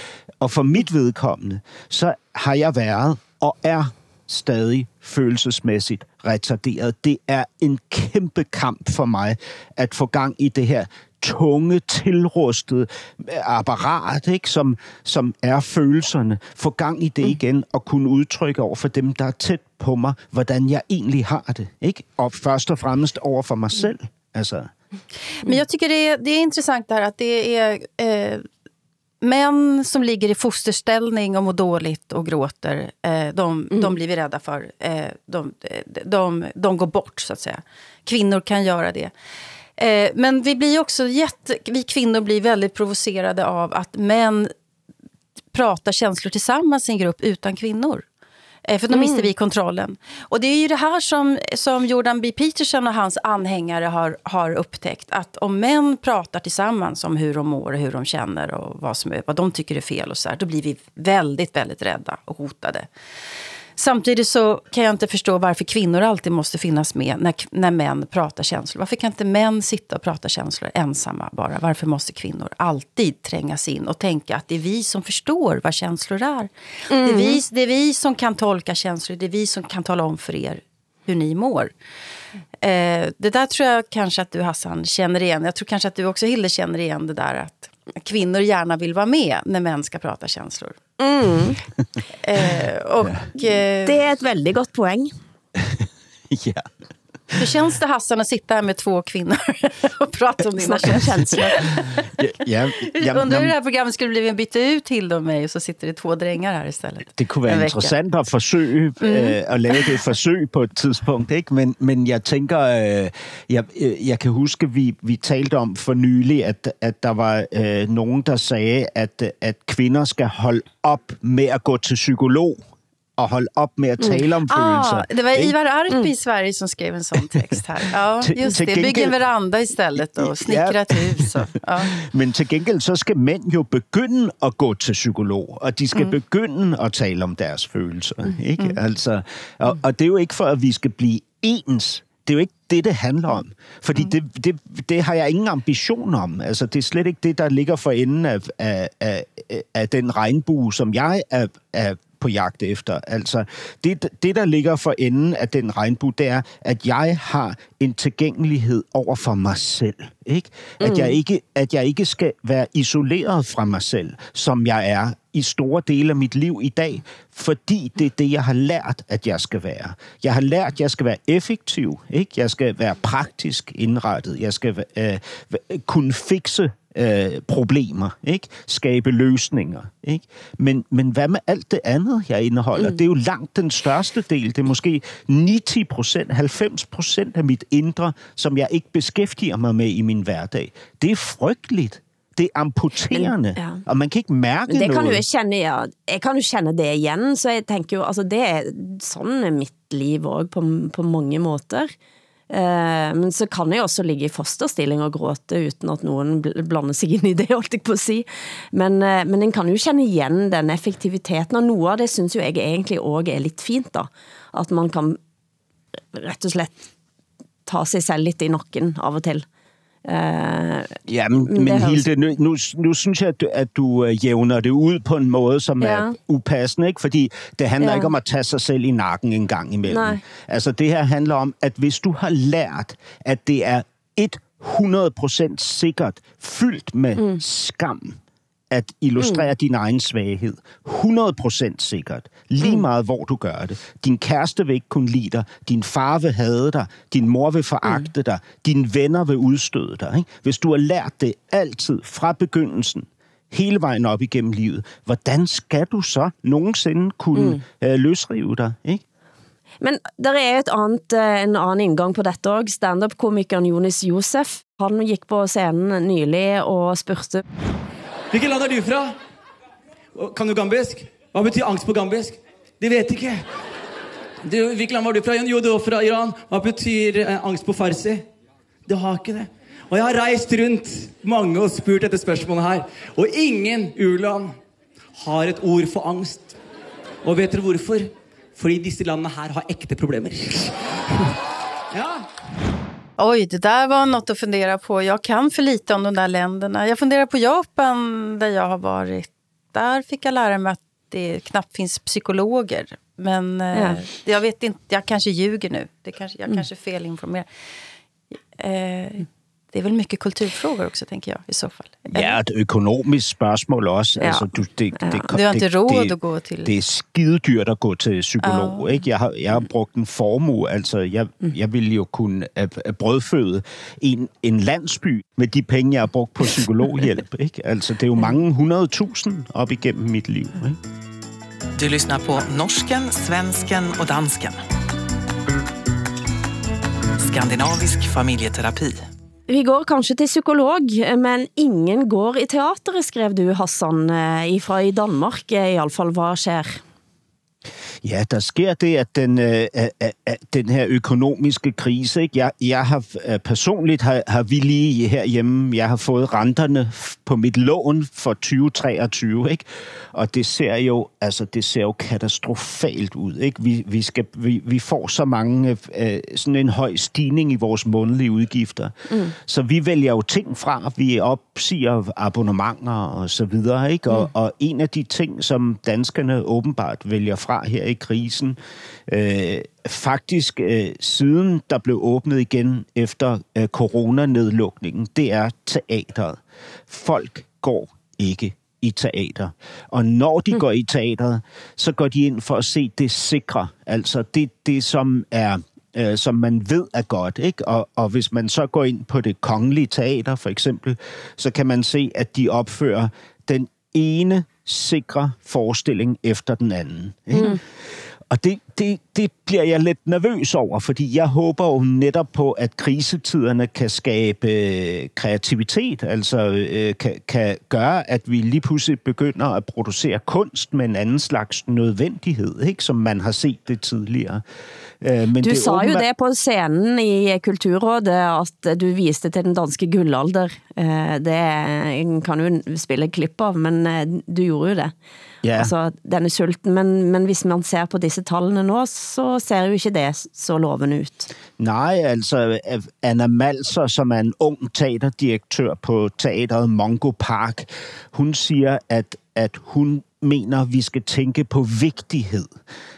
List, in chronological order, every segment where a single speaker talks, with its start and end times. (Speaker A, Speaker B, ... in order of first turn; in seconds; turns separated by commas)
Speaker A: 0.4-24.7, Speaker B: 25.4-28.4, Speaker B: 29.2-39.1, Speaker B: 39.8-44.5, Speaker B: 45.5-48.0, Speaker B: 48.7-62.9, Speaker C: 48.9-49.3, Speaker B: 63.8-81.7, Speaker C: 76.9-77.4, Speaker B: 82.6-90.8, Speaker C: 91.0-91.6, Speaker B: 92.2-94.0, Speaker C: 93.8-95.1, Speaker A: 95.5-96.7, Speaker B: 97.4-102.1, Speaker C: 100.6-101.5, Speaker A: 102.2-103.5, Speaker B: 102.9-107.9, Speaker A: 107.2-122.6, Speaker B: 109.0-109.9, Speaker A: 123.2-125.5, Speaker B: 124.5-132.0, Speaker A: 128.2-129.2, Speaker A: 130.2-195.2, Speaker C: 160.8-161.2, Speaker C: 193.1-193.8, Speaker C: 194.7-201.9, Speaker C: 202.5-215.2, Speaker C: 216.1-216.9, Speaker C: 217.7-219.4, Speaker C: 220.1-222.1, Speaker A: 221.1-238.2, Speaker C: 225.8-226.2, Speaker C: 227.8-228.1, Speaker C: 229.8-230.2, Speaker A: 238.7-259.0, Speaker C: 239.2-239.5, Speaker C: 257.3-257.6, Speaker C: 259.8-267.4, Speaker D: 268.3-269.1, Speaker D: 270.1-273.5, Speaker D: 274.4-278.3, Speaker D: 278.9-284.6, Speaker D: 285.1-286.6, Speaker D: 287.2-291.3, Speaker D: 291.9-292.3, Speaker B: 293.2-307.5, Speaker C: 303.7-304.0, Speaker B: 308.6-312.4, Speaker A: 312.1-330.8, Speaker C: 314.2-314.5, Speaker C: 315.0-315.3, Speaker B: 315.3-316.7, Speaker B: 318.4-318.9, Speaker E: 331.8-334.6, Speaker E: 337.2-339.1, Speaker C: 339.5-346.8, Speaker A: 348.0-407.6, Speaker C: 407.3-407.6, Speaker A: 408.3-424.4, Speaker A: 425.0-426.1, Speaker C: 425.4-434.9, Speaker A: 435.4-435.7, Speaker C: 435.6-441.3, Speaker A: 441.6-452.5